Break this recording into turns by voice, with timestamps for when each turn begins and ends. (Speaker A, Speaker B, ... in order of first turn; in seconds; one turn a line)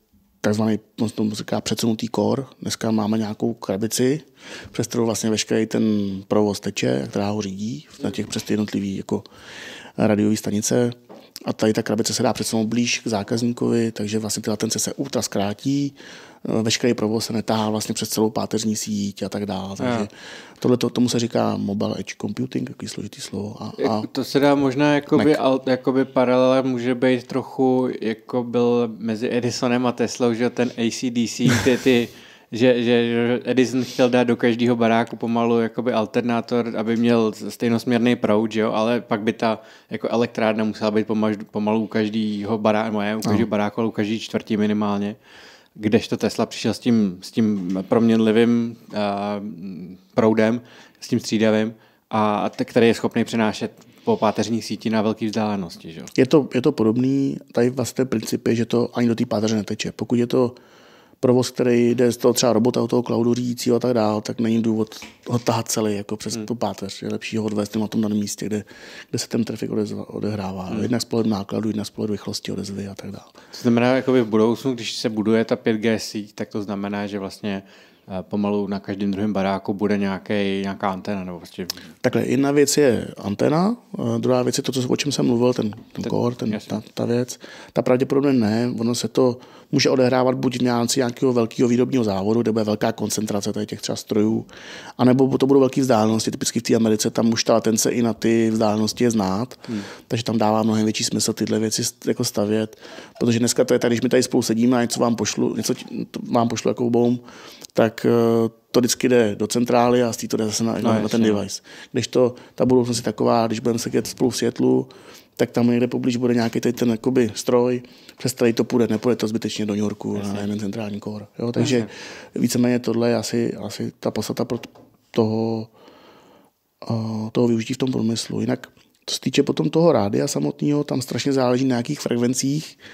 Speaker A: 0.4-9.2
Speaker A: 10.0-24.1
Speaker B: 19.8-20.1
Speaker B: 23.8-45.2
Speaker B: 45.8-56.1
Speaker A: 56.1-60.6
Speaker A: 61.2-73.3
Speaker B: 73.5-81.9
Speaker A: 82.0-107.2
Speaker B: 86.0-86.7
Speaker A: 107.7-125.7
Speaker B: 110.8-111.4
Speaker B: 120.1-120.5
Speaker B: 121.6-121.9
Speaker A: 126.8-132.8